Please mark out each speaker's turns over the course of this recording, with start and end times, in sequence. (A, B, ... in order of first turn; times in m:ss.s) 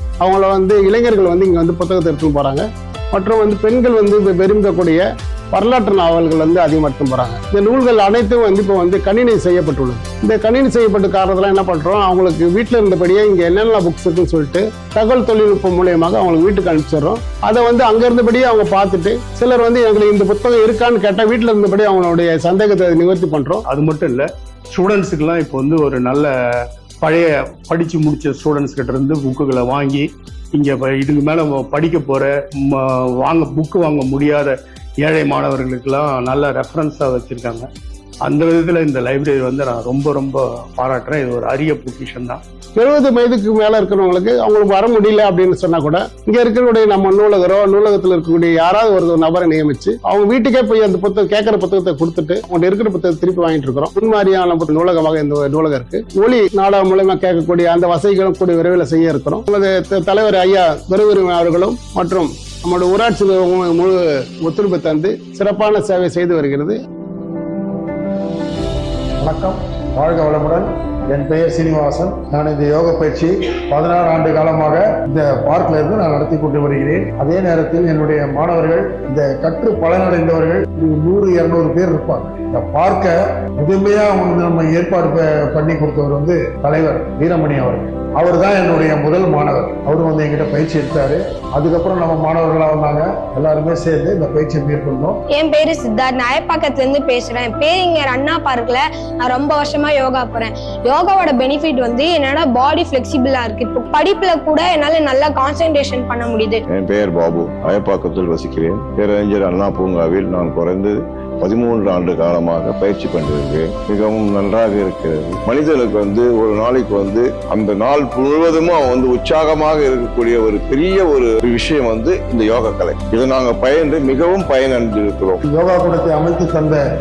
0:00.2-0:23.6 A
0:23.7-0:26.3 B
0:27.0-0:37.7 B
0:38.2-0:42.4 B
0:42.8-1:06.8 A
1:09.2-1:35.2 C
1:35.3-1:46.6 D
1:46.7-2:05.4 E
2:05.5-2:06.8 C